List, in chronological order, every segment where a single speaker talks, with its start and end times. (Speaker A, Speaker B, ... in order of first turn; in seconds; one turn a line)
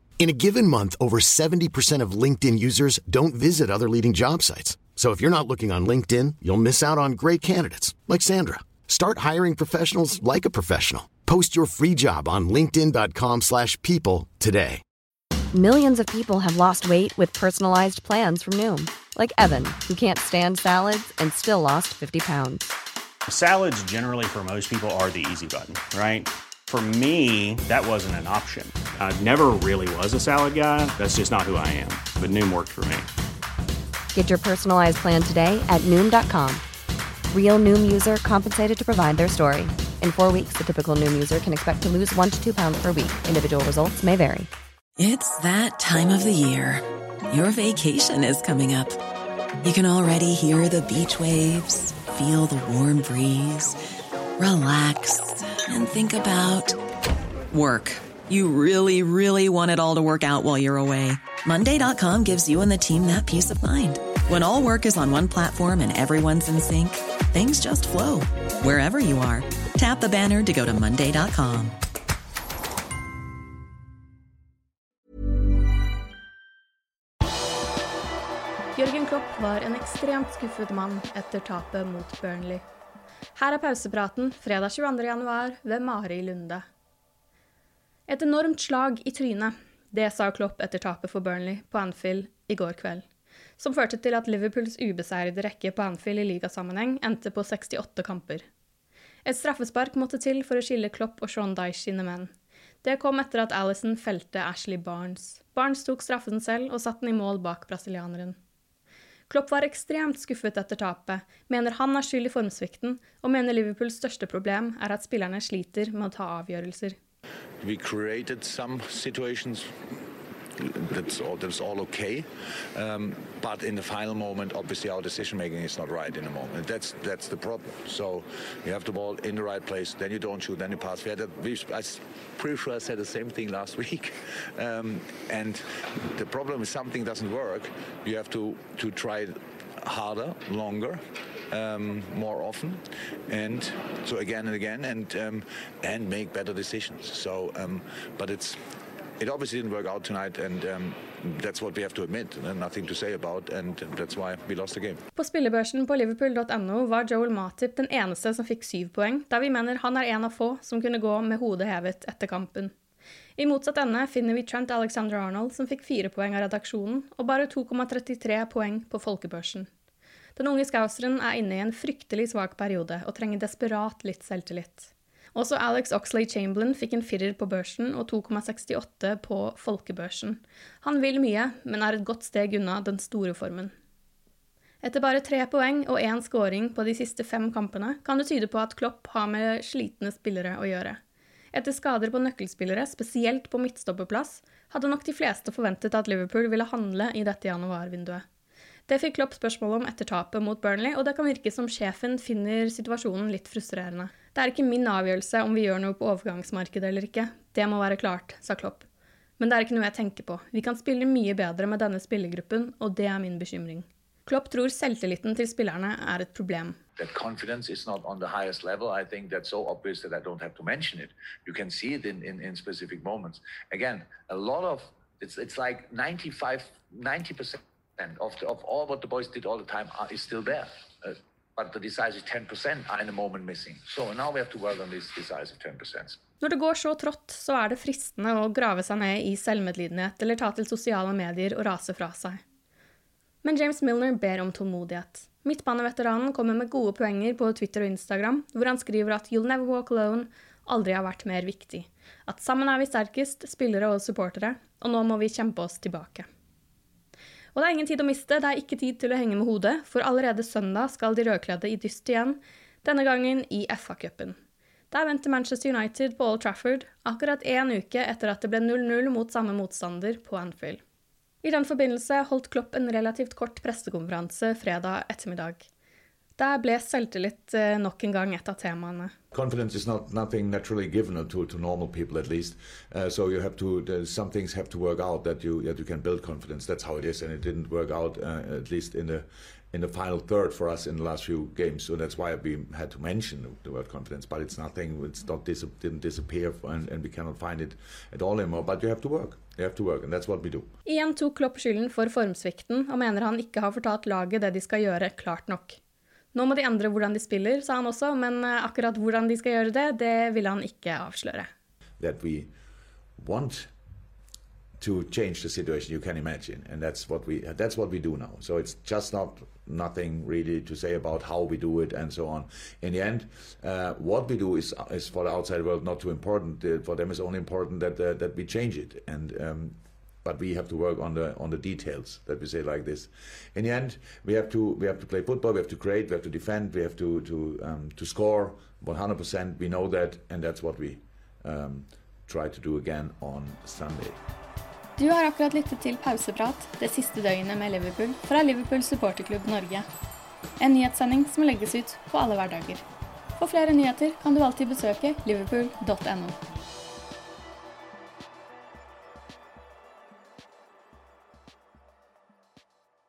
Speaker A: 0.2-14.8
Speaker B: 15.5-22.7
Speaker C: 23.3-33.1
Speaker B: 34.1-36.6
Speaker B: 37.3-44.5
Speaker D: 45.0-49.0
Speaker D: 49.6-53.7
Speaker D: 54.4-56.8
Speaker D: 57.5-71.7
Speaker E: 78.8-82.6
Speaker E: 83.4-86.6
Speaker E: 88.1-93.0
Speaker E: 93.6-98.4
Speaker E: 99.2-102.3
Speaker E: 102.8-108.4
Speaker E: 109.3-117.0
Speaker F: 117.6-119.7
Speaker F: 120.6-148.6
Speaker F: 149.2-155.0
Speaker E: 155.2-162.7
Speaker E: 163.4-169.7
Speaker E: 170.4-183.7
Speaker E: 184.8-191.0
Speaker E: 191.5-198.2
Speaker E: 198.9-208.9
Speaker E: 209.4-216.8
Speaker F: 217.0-236.2
Speaker E: 236.4-242.4
Speaker E: 243.4-256.3
Speaker E: 257.6-264.4
Speaker E: 264.9-270.8
Speaker E: 271.4-275.7
Speaker E: 276.4-279.1
Speaker F: 279.3-300.7
Speaker E: 300.9-305.8
Speaker E: 306.3-311.5
Speaker F: 312.0-312.5
Speaker F: 313.2-313.7
Speaker F: 314.8-344.2
Speaker E: 345.0-349.9
Speaker E: 350.6-352.9
Speaker E: 353.4-356.4